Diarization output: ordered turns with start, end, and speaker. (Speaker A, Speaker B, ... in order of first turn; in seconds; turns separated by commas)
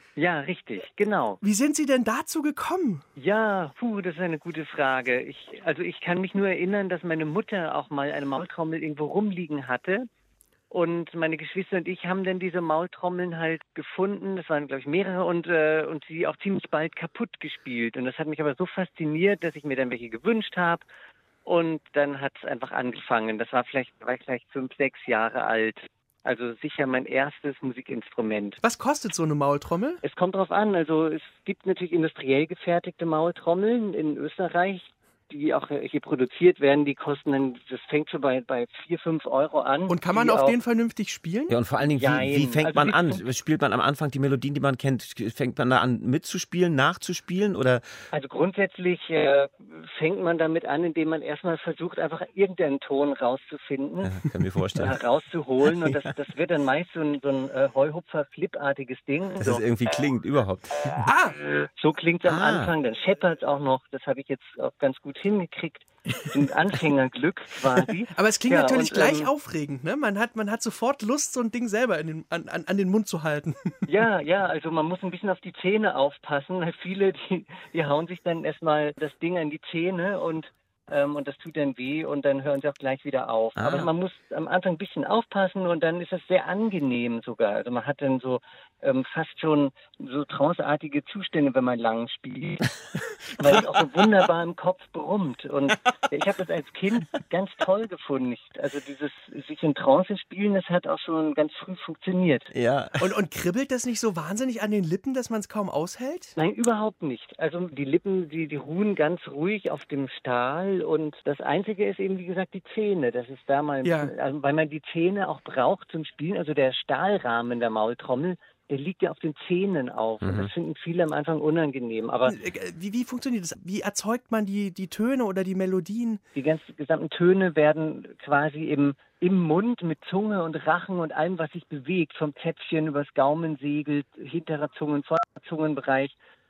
Speaker A: 0.2-1.4, Speaker B: 1.4-3.0, Speaker A: 3.2-10.1, Speaker A: 10.7-20.8, Speaker A: 21.4-28.6, Speaker B: 28.6-30.0, Speaker A: 30.0-40.6, Speaker B: 39.9-41.5, Speaker C: 41.5-47.9, Speaker A: 42.0-43.2, Speaker A: 48.1-54.2, Speaker C: 54.0-55.0, Speaker A: 54.8-59.6, Speaker C: 55.8-56.1, Speaker C: 59.4-61.0, Speaker B: 61.0-61.4, Speaker A: 61.5-69.3, Speaker C: 62.2-62.7, Speaker B: 68.2-73.8, Speaker A: 73.9-92.7, Speaker C: 83.6-83.9, Speaker A: 93.4-102.5, Speaker C: 93.4-93.7, Speaker C: 102.5-103.1, Speaker B: 103.0-106.4, Speaker A: 106.4-122.3, Speaker B: 113.8-114.1, Speaker C: 120.2-120.5, Speaker B: 122.2-126.2, Speaker A: 126.3-136.1